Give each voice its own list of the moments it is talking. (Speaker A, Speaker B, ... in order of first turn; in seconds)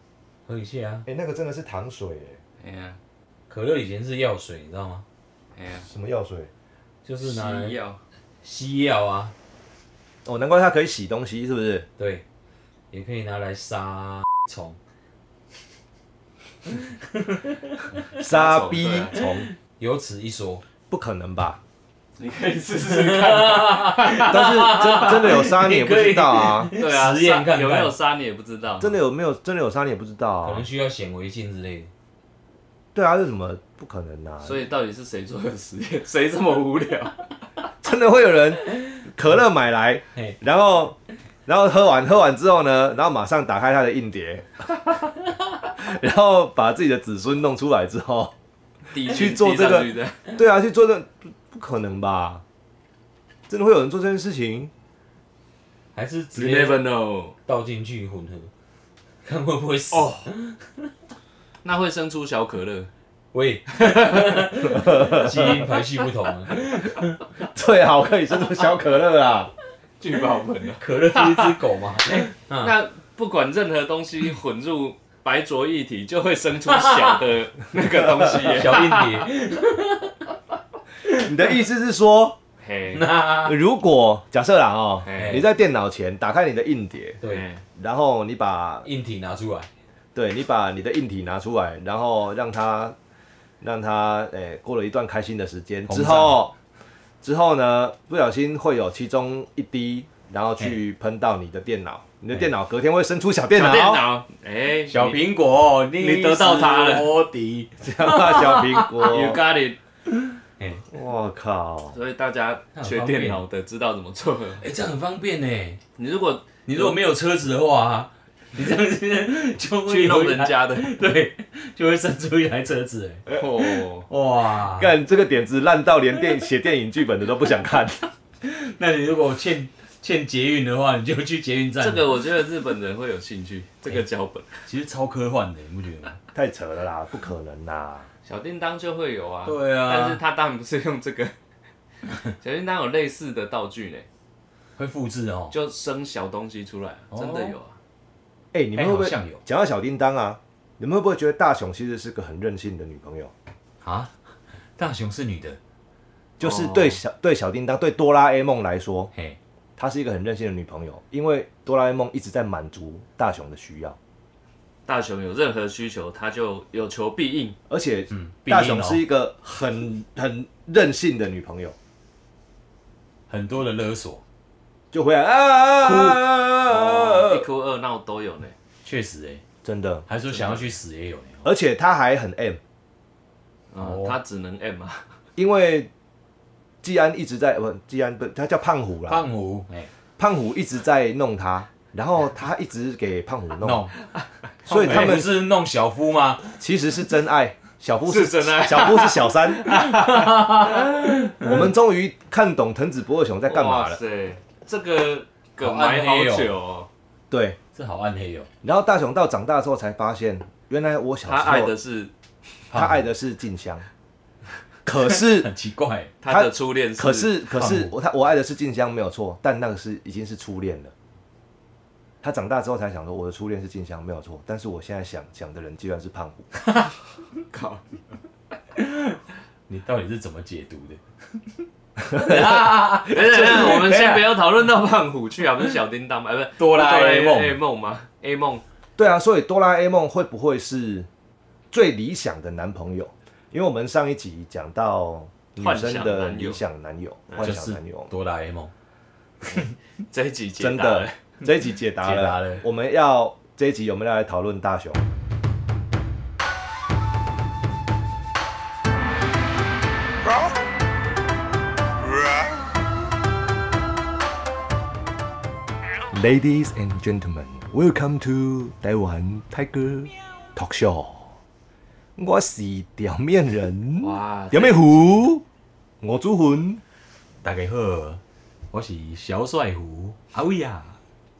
Speaker A: 0.5-1.1, 3.5-5.0, 7.0-7.8, 8.4-9.3, 12.0-12.2, 12.9-14.8, 16.6-17.8, 19.1-20.6, 22.9-27.9, 30.4-31.9, 55.9-56.9, 57.5-58.5, 59.2-60.9, 63.3-67.2, 70.8-72.7, 76.7-77.2, 78.5-80.2, 82.9-83.5, 85.1-85.4, 88.8-89.7, 95.9-96.4, 104.8-109.2, 110.1-110.8, 112.7-113.4, 114.6-115.8, 116.7-124.9, 128.4-132.1, 134.7-136.2, 139.4-140.2, 144.8-145.5, 147.1-147.5, 148.7-149.4, 153.8-154.1, 154.8-155.6, 168.1-169.0, 173.3-174.2, 175.8-176.2, 178.8-179.4, 180.1-181.5, 183.8-184.2, 189.1-189.9, 193.6-193.9, 194.7-196.5, 199.8-201.7, 205.6-206.5, 207.7-208.5, 212.7-213.1, 215.1-216.1, 217.5-217.9, 228.8-234.2, 236.6-237.6, 247.4-248.7, 252.0-252.6, 277.4-281.0
Speaker B: 1.1-2.4, 5.8-6.5, 10.2-11.9, 18.2-19.5, 20.9-21.6, 24.2-26.7, 28.8-30.6, 32.9-34.6, 37.8-44.6, 45.8-48.3, 49.0-52.4, 53.5-54.7, 64.6-65.7, 67.5-69.5, 81.1-82.4, 83.4-87.2, 87.7-88.9, 90.1-93.0, 93.6-96.5, 97.2-104.0, 107.8-109.4, 110.9-112.0, 124.7-128.1, 136.3-138.1, 148.5-153.3, 156.4-159.1, 159.8-164.0, 167.7-171.8, 174.9-177.4, 179.6-180.1, 181.4-182.6, 185.3-185.9, 186.8-189.3, 190.2-193.9, 194.6-195.3, 196.6-199.8, 201.4-204.0, 207.3-207.6, 208.6-211.7, 212.7-213.9, 214.8-215.5, 216.3-220.9, 222.2-226.5, 232.0-234.2, 239.0-241.1, 241.7-248.1, 250.6-255.0, 266.1-271.3, 272.2-275.4, 276.0-276.8
Speaker C: 2.6-3.0, 5.5-5.8, 7.2-8.0, 18.2-19.2, 22.2-25.4, 26.8-29.0, 34.4-37.2, 48.9-50.3, 56.3-57.4, 59.9-60.3, 61.6-62.9, 63.7-64.4, 70.0-79.3, 82.6-83.1, 85.0-85.4, 87.2-87.6, 103.5-105.2, 106.0-107.1, 109.0-109.8, 111.9-114.6, 116.0-117.0, 119.9-120.9, 123.3-124.1, 131.8-134.6, 138.2-141.3, 142.4-144.1, 145.5-147.8, 156.4-157.0, 164.8-167.6, 176.7-178.5, 180.3-180.7, 183.7-185.0, 194.8-195.1, 198.1-201.0, 203.5-206.9, 211.2-212.1, 216.2-217.4, 227.5-227.8, 233.1-238.6, 245.6-246.6, 249.5-251.2, 274.0-275.1